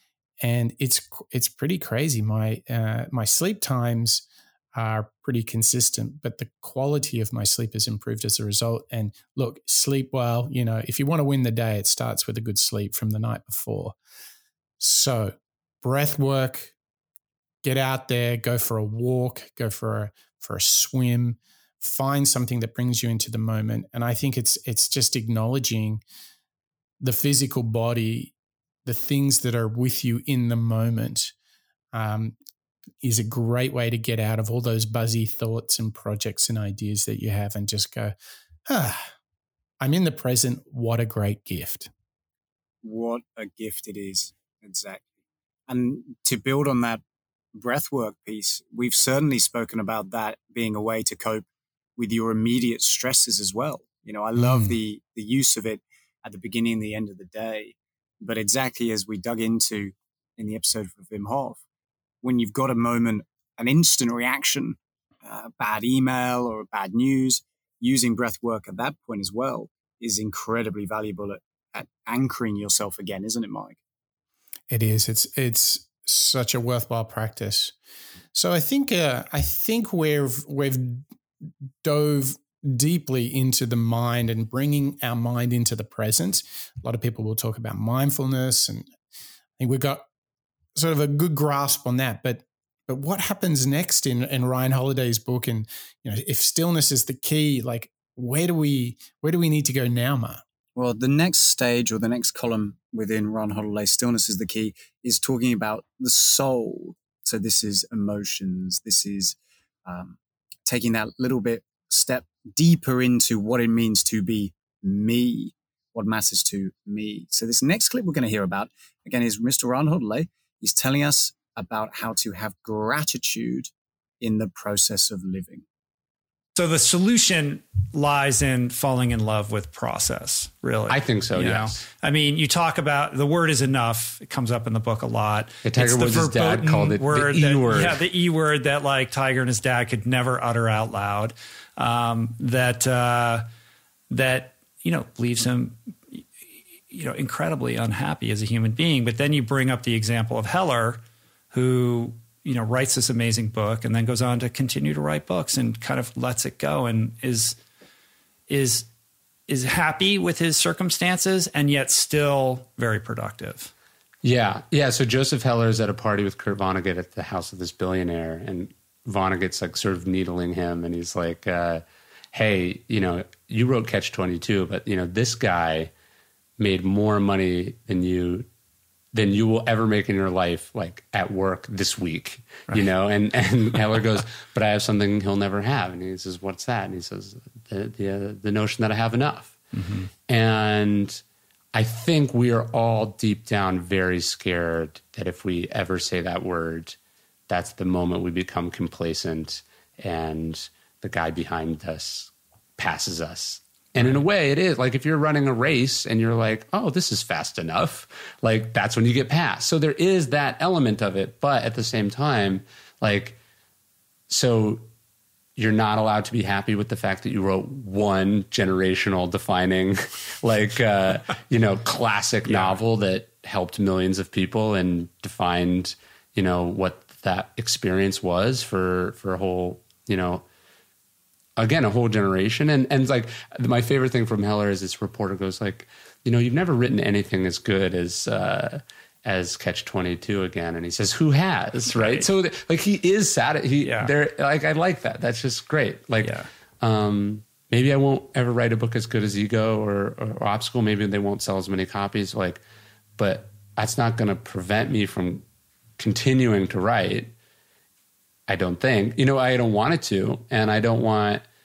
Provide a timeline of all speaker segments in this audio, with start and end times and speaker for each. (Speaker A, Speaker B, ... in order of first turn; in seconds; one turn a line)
Speaker A: 0.4-13.9
Speaker A: 14.8-16.7
Speaker A: 17.6-26.0
Speaker A: 27.0-28.3
Speaker A: 28.8-31.3
Speaker A: 31.9-32.4
Speaker A: 33.0-38.1
Speaker A: 38.7-39.1
Speaker A: 39.8-41.9
Speaker B: 42.8-45.1
Speaker B: 45.7-47.0
Speaker B: 47.5-51.5
Speaker B: 52.0-61.6
Speaker A: 54.4-54.8
Speaker B: 62.2-73.8
Speaker A: 74.7-77.7
Speaker A: 78.3-81.0
Speaker A: 81.8-88.9
Speaker A: 89.6-90.0
Speaker A: 90.7-100.4
Speaker B: 100.8-125.6
Speaker C: 126.5-143.5
Speaker D: 130.9-131.8
Speaker D: 135.6-138.0
Speaker C: 144.1-146.2
Speaker C: 146.9-157.6
Speaker C: 158.5-158.9
Speaker C: 159.5-163.7
Speaker D: 164.2-175.9
Speaker D: 176.6-178.5
Speaker D: 179.1-189.6
Speaker C: 189.7-190.1
Speaker D: 190.3-191.2
Speaker D: 191.7-196.9
Speaker D: 197.5-213.4
Speaker D: 214.3-214.9
Speaker D: 215.6-230.4
Speaker C: 222.5-222.8
Speaker D: 231.6-252.6
Speaker C: 241.9-242.3
Speaker C: 243.8-244.1
Speaker C: 246.2-246.5
Speaker D: 253.2-255.4
Speaker D: 256.0-257.3
Speaker D: 258.5-261.4